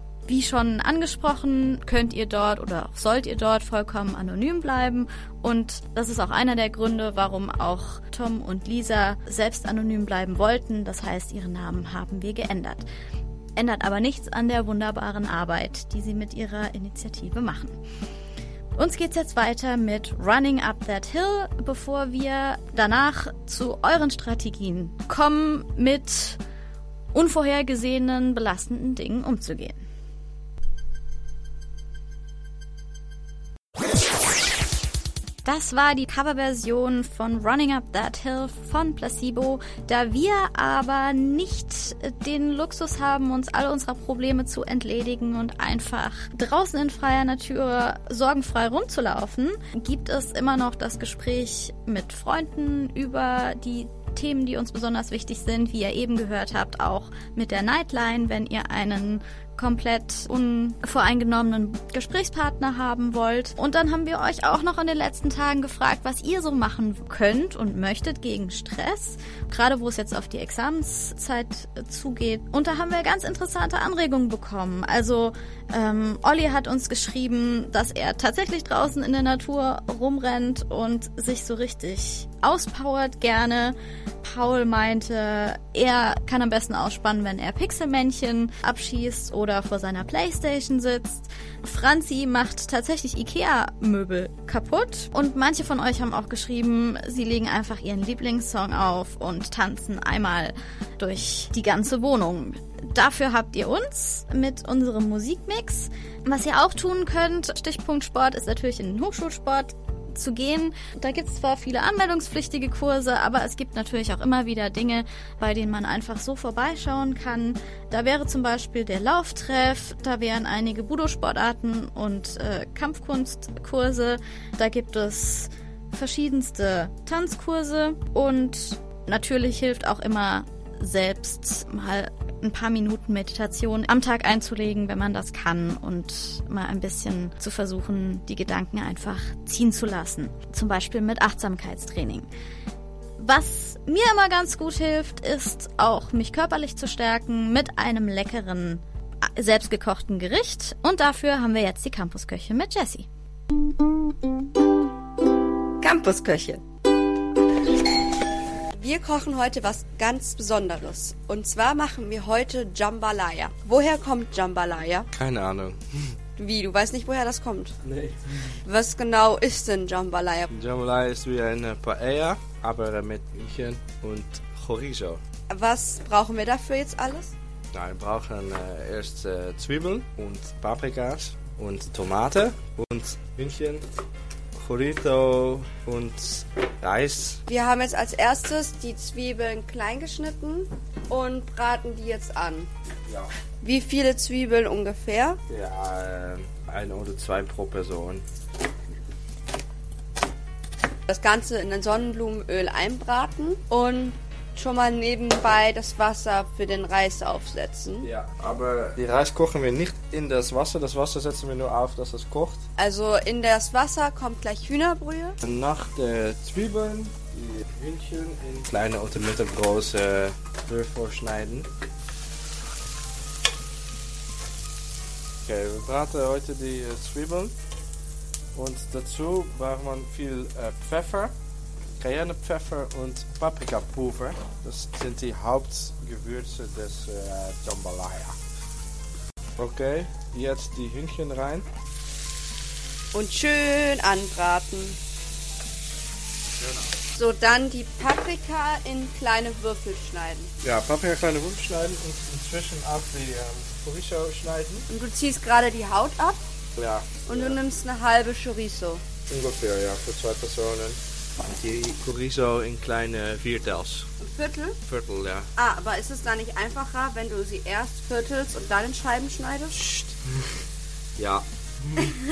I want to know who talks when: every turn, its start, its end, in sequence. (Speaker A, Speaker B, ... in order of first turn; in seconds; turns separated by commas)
Speaker A: 0.3-12.9, Speaker A: 13.6-17.8, Speaker A: 18.8-26.4, Speaker A: 27.1-29.8, Speaker A: 35.4-142.3, Speaker A: 143.2-153.1, Speaker B: 155.8-156.6, Speaker B: 158.7-165.1, Speaker C: 165.1-166.2, Speaker B: 166.4-167.8, Speaker C: 167.8-168.6, Speaker B: 168.7-170.5, Speaker C: 170.5-175.2, Speaker B: 175.5-177.3, Speaker C: 177.7-183.9, Speaker C: 184.6-187.4, Speaker B: 187.5-192.7, Speaker C: 193.1-193.3, Speaker B: 193.6-195.4, Speaker C: 195.5-198.2, Speaker B: 201.1-208.1, Speaker C: 208.0-212.7, Speaker B: 212.8-215.4, Speaker C: 215.4-221.7, Speaker C: 225.4-227.5, Speaker C: 228.6-231.3, Speaker C: 232.0-238.4, Speaker C: 239.6-241.7, Speaker B: 243.1-245.0, Speaker C: 246.6-246.9, Speaker B: 247.1-250.5, Speaker C: 250.6-254.9, Speaker B: 254.9-256.4, Speaker C: 256.8-257.6, Speaker B: 257.2-259.0, Speaker C: 259.3-264.1, Speaker B: 264.2-264.8, Speaker C: 264.9-265.5, Speaker B: 265.6-269.8, Speaker C: 269.7-270.2, Speaker C: 271.2-272.1